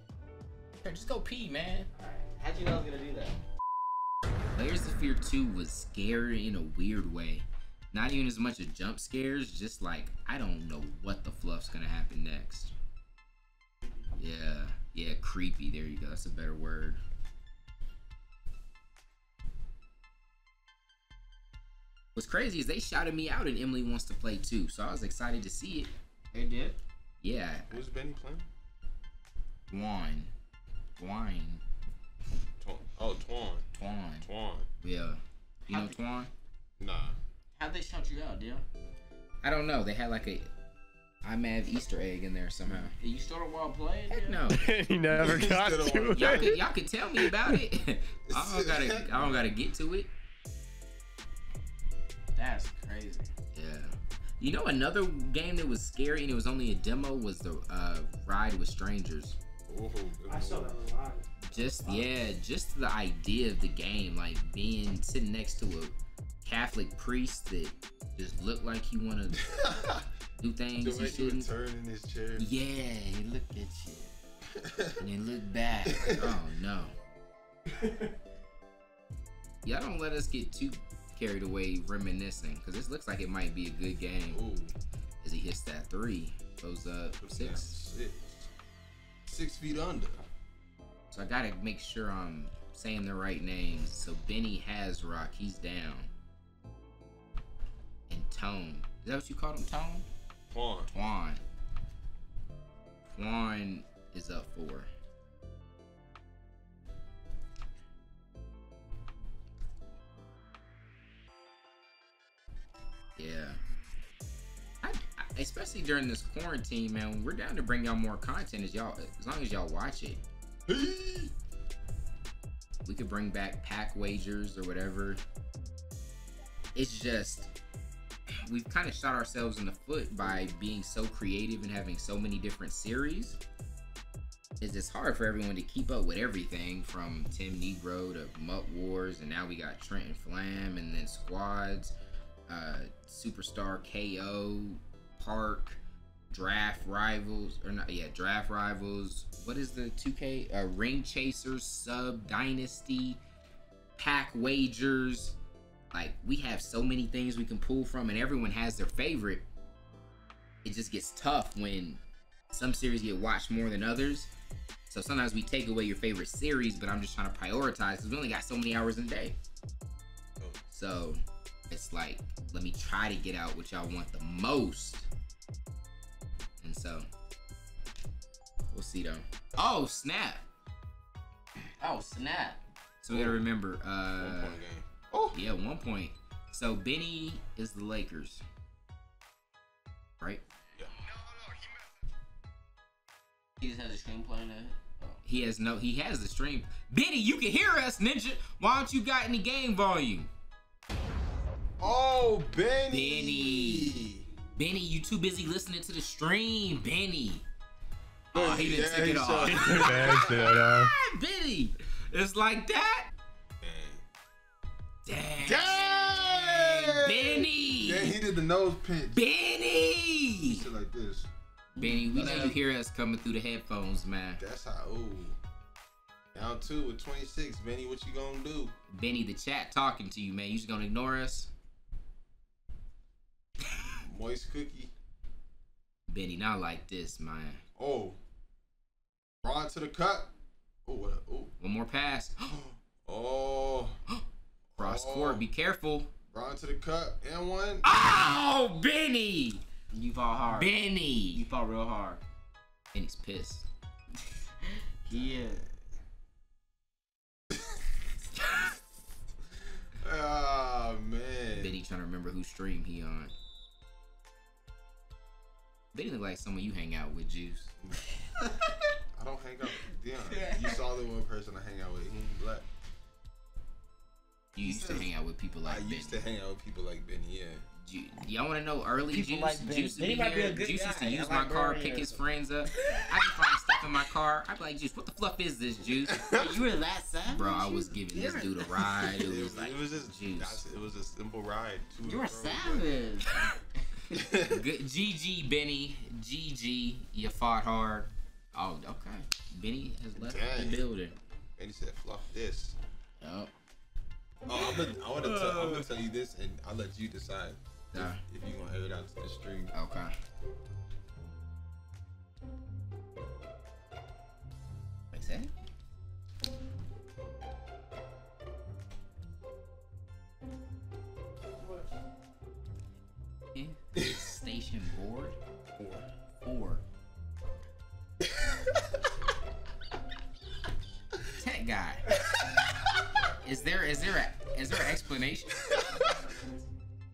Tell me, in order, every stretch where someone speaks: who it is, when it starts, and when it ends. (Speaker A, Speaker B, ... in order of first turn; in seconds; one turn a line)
Speaker A: 0.8-1.9
Speaker B: 2.0-3.4
Speaker A: 4.5-12.7
Speaker A: 14.2-17.0
Speaker A: 22.1-25.9
Speaker B: 26.3-26.8
Speaker A: 27.2-27.7
Speaker C: 27.7-28.5
Speaker A: 29.7-30.3
Speaker A: 31.0-31.6
Speaker C: 32.6-33.6
Speaker A: 33.8-34.3
Speaker C: 34.2-34.7
Speaker A: 34.8-36.3
Speaker B: 35.7-36.0
Speaker C: 36.8-37.2
Speaker B: 37.6-38.7
Speaker A: 39.4-40.5
Speaker A: 41.2-42.9
Speaker B: 43.0-44.4
Speaker A: 44.1-44.6
Speaker D: 44.5-46.6
Speaker C: 45.1-46.6
Speaker A: 46.1-50.1
Speaker C: 48.3-49.5
Speaker B: 52.4-53.3
Speaker A: 53.5-59.4
Speaker C: 59.7-60.8
Speaker E: 60.3-62.1
Speaker A: 61.5-69.4
Speaker C: 69.3-70.1
Speaker A: 70.4-71.5
Speaker C: 70.8-72.5
Speaker A: 72.4-74.1
Speaker C: 74.5-75.0
Speaker A: 75.0-76.9
Speaker C: 75.8-76.4
Speaker E: 77.7-78.1
Speaker A: 79.6-84.4
Speaker C: 84.3-84.7
Speaker A: 85.2-87.7
Speaker C: 87.2-88.5
Speaker C: 89.3-90.2
Speaker A: 91.1-96.1
Speaker A: 98.1-100.1
Speaker C: 100.5-100.9
Speaker A: 100.9-101.4
Speaker A: 103.1-104.9
Speaker A: 113.2-113.6
Speaker A: 114.8-120.2
Speaker C: 120.7-121.3
Speaker A: 122.8-125.2
Speaker A: 126.8-127.5
Speaker A: 128.4-133.4
Speaker A: 134.6-142.0
Speaker A: 142.5-153.2
Speaker A: 154.0-155.4
Speaker A: 155.9-159.4
Speaker A: 160.6-162.0
Speaker A: 162.5-164.3
Speaker A: 164.9-169.4
Speaker A: 170.7-175.1
Speaker A: 176.6-177.1
Speaker A: 178.7-180.4
Speaker B: 181.8-182.6
Speaker A: 183.0-184.6
Speaker C: 183.1-183.5
Speaker C: 184.1-185.4
Speaker A: 185.3-188.4
Speaker B: 193.6-195.2
Speaker A: 195.2-200.3
Speaker C: 201.8-204.2
Speaker A: 202.9-204.0
Speaker A: 204.6-207.4
Speaker A: 208.3-213.1
Speaker C: 208.3-210.6
Speaker D: 209.5-210.9
Speaker C: 213.6-214.0
Speaker A: 215.1-218.2
Speaker C: 215.4-219.2
Speaker A: 219.1-220.6
Speaker C: 220.5-221.3
Speaker B: 221.8-222.6
Speaker A: 221.8-224.4
Speaker C: 222.1-222.6
Speaker C: 224.4-225.4
Speaker C: 226.3-228.8
Speaker A: 228.9-231.5
Speaker C: 234.0-234.9
Speaker A: 236.1-237.6
Speaker C: 237.8-238.2
Speaker C: 239.4-240.3
Speaker C: 240.9-241.5
Speaker A: 241.6-242.5
Speaker C: 242.5-244.0
Speaker C: 244.8-245.5
Speaker A: 244.8-246.1
Speaker C: 246.3-247.9
Speaker A: 247.8-249.6
Speaker B: 249.9-250.7
Speaker A: 250.5-251.4
Speaker B: 251.3-252.2
Speaker A: 252.9-253.7
Speaker B: 255.1-255.6
Speaker C: 255.1-255.6
Speaker C: 260.0-261.8
Speaker A: 261.6-263.3
Speaker A: 265.9-267.7
Speaker C: 269.1-272.7
Speaker B: 270.3-270.7
Speaker A: 274.6-276.2
Speaker C: 274.6-275.1
Speaker C: 275.6-277.6
Speaker A: 277.8-286.2
Speaker B: 279.1-282.2
Speaker B: 282.8-283.1
Speaker C: 286.1-286.6
Speaker B: 286.3-288.8
Speaker A: 287.2-290.6
Speaker C: 288.9-292.9
Speaker B: 292.0-293.4
Speaker C: 294.1-294.7
Speaker A: 294.5-301.2
Speaker C: 300.2-300.9
Speaker C: 301.6-302.8
Speaker A: 303.2-303.5
Speaker C: 304.4-309.7
Speaker A: 304.5-305.9
Speaker A: 307.9-308.2
Speaker A: 309.7-310.1
Speaker A: 315.1-315.5
Speaker E: 321.4-321.9
Speaker A: 323.5-325.4
Speaker C: 325.8-326.1
Speaker A: 326.4-326.8
Speaker C: 328.2-328.8
Speaker A: 331.3-332.1
Speaker A: 333.4-335.7
Speaker C: 335.7-336.1
Speaker E: 336.0-336.7